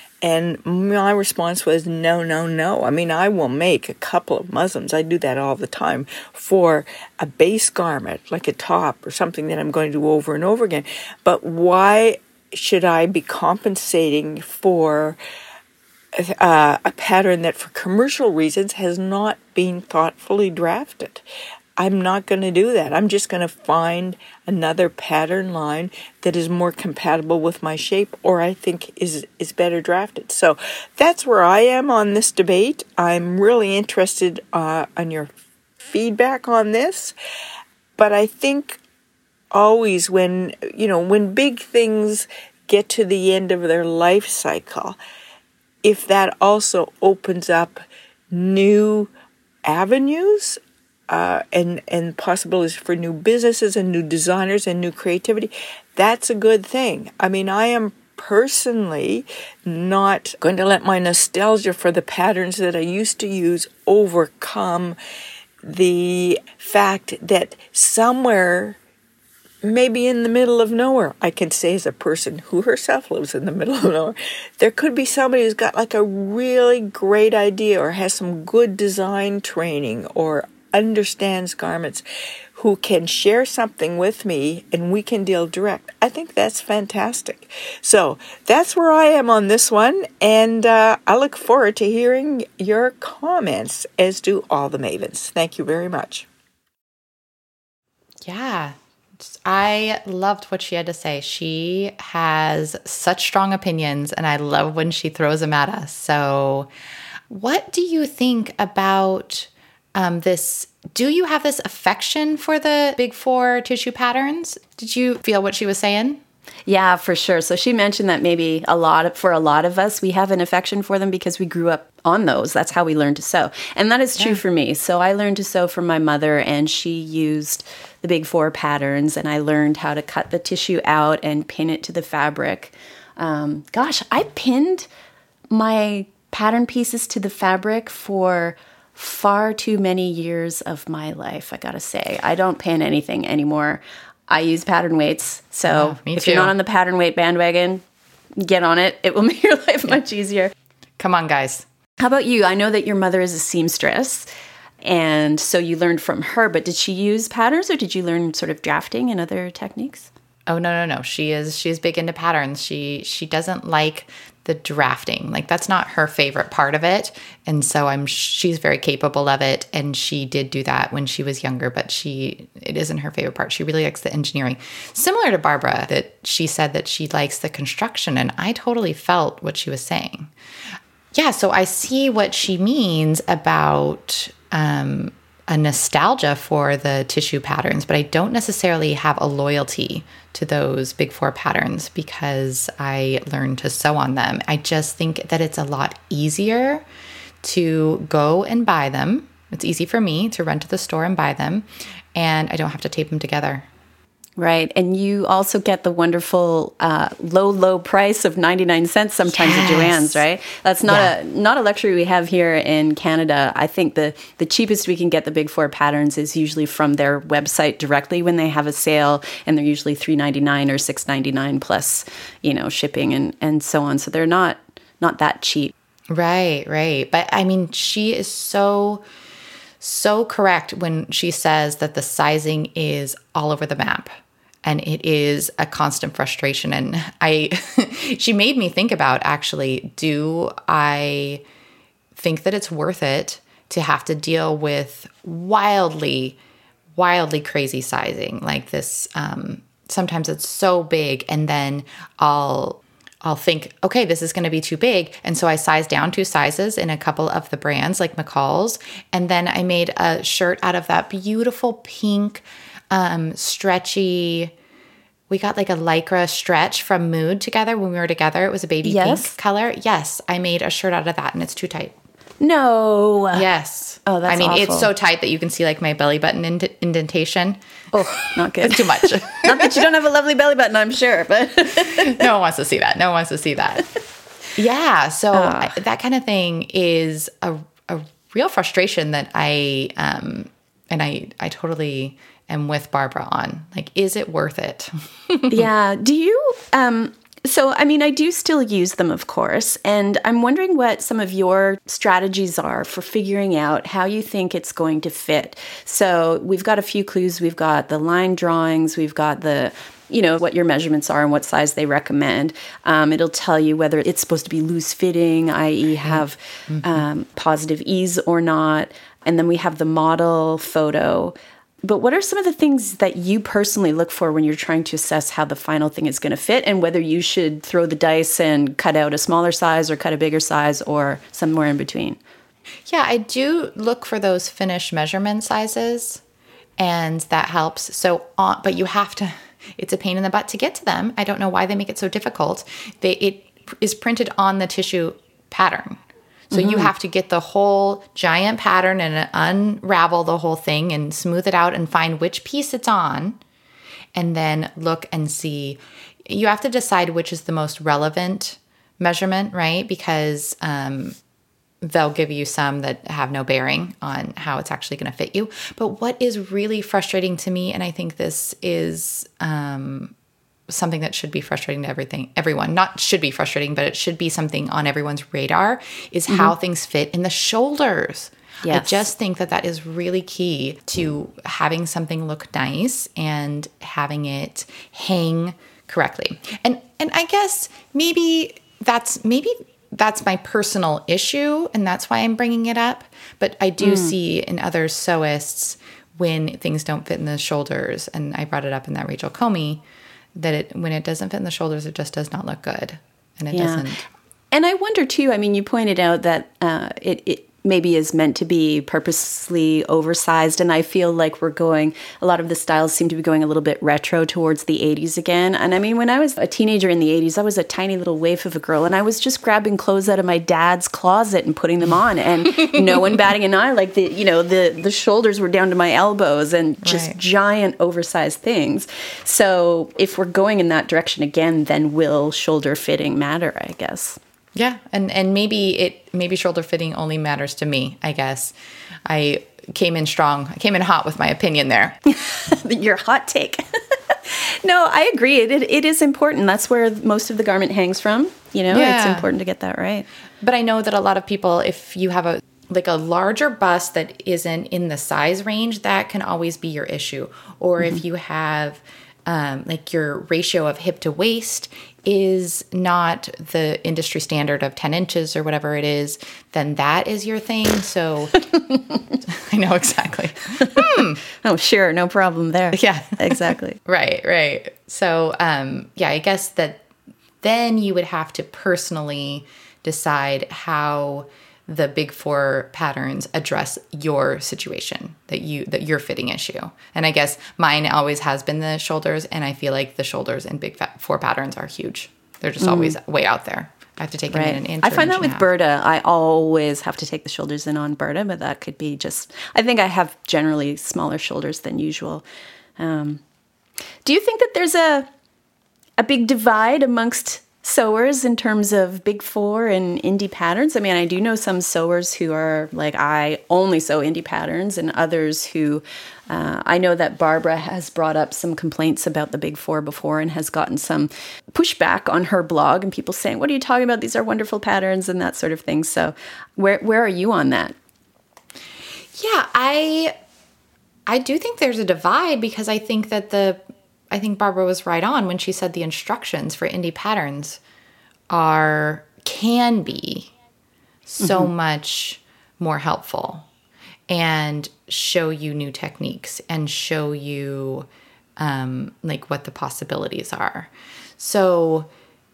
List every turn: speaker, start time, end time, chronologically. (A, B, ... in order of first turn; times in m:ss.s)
0:00.2-0:15.2 A
0:16.2-0:21.2 A
0:21.8-0:37.2 A
0:38.0-0:38.8 A
0:39.5-0:45.0 A
0:45.8-0:49.1 A
0:49.6-1:05.0 A
1:05.6-1:08.8 A
1:09.6-1:22.0 A
1:22.6-1:36.3 A
1:38.2-1:46.7 B
1:47.3-1:56.2 B
1:56.7-2:14.9 C
2:15.5-2:27.8 C
2:25.7-2:26.6 B
2:28.4-2:30.5 C
2:31.0-2:31.7 B
2:32.0-2:34.3 C
2:34.8-2:40.1 C
2:40.5-3:00.3 B
3:01.2-3:16.8 B
3:17.4-3:23.7 B
3:24.4-3:45.7 C
3:29.3-3:30.2 B
3:30.9-3:31.1 B
3:46.1-3:49.0 B
3:49.8-3:54.1 B
3:54.6-4:01.4 B
4:02.2-4:06.4 B
4:07.0-4:24.5 B
4:25.3-4:32.0 B
4:28.8-4:29.3 C
4:32.4-4:33.5 C
4:33.3-4:37.6 B
4:34.1-4:34.9 C
4:37.9-4:42.3 C
4:38.2-4:39.8 B
4:41.8-4:43.9 B
4:44.6-4:55.7 B
4:45.3-4:45.8 C
4:55.5-5:32.2 C
5:16.0-5:17.0 B
5:32.9-5:36.2 B
5:36.8-5:46.0 B
5:46.5-5:53.4 B
5:46.5-5:46.9 C
5:54.2-6:01.2 B
6:01.8-6:10.1 B
6:10.7-6:39.8 B
6:18.6-6:19.1 C
6:33.8-6:34.1 C
6:40.4-6:44.0 B
6:43.5-6:43.9 C
6:44.5-7:14.2 C
7:02.5-7:02.8 B
7:06.8-7:07.2 B
7:14.6-7:18.5 B
7:19.1-7:22.0 B
7:22.1-7:30.1 C
7:28.7-7:29.3 B
7:30.4-7:48.5 B
7:48.6-7:49.0 C
7:49.3-7:51.2 B
7:50.6-7:53.8 C
7:52.7-7:56.8 B
7:57.4-8:15.5 B
8:12.6-8:13.0 C
8:14.3-8:22.2 C
8:22.8-8:23.2 C
8:24.0-8:25.1 C
8:26.0-8:47.8 C
8:49.1-8:50.2 B
8:51.1-8:53.6 B
8:54.1-8:57.6 B
8:58.3-9:00.3 B
9:01.1-9:03.5 B
9:01.2-9:01.5 C
9:04.1-9:07.9 B
9:08.4-9:11.9 B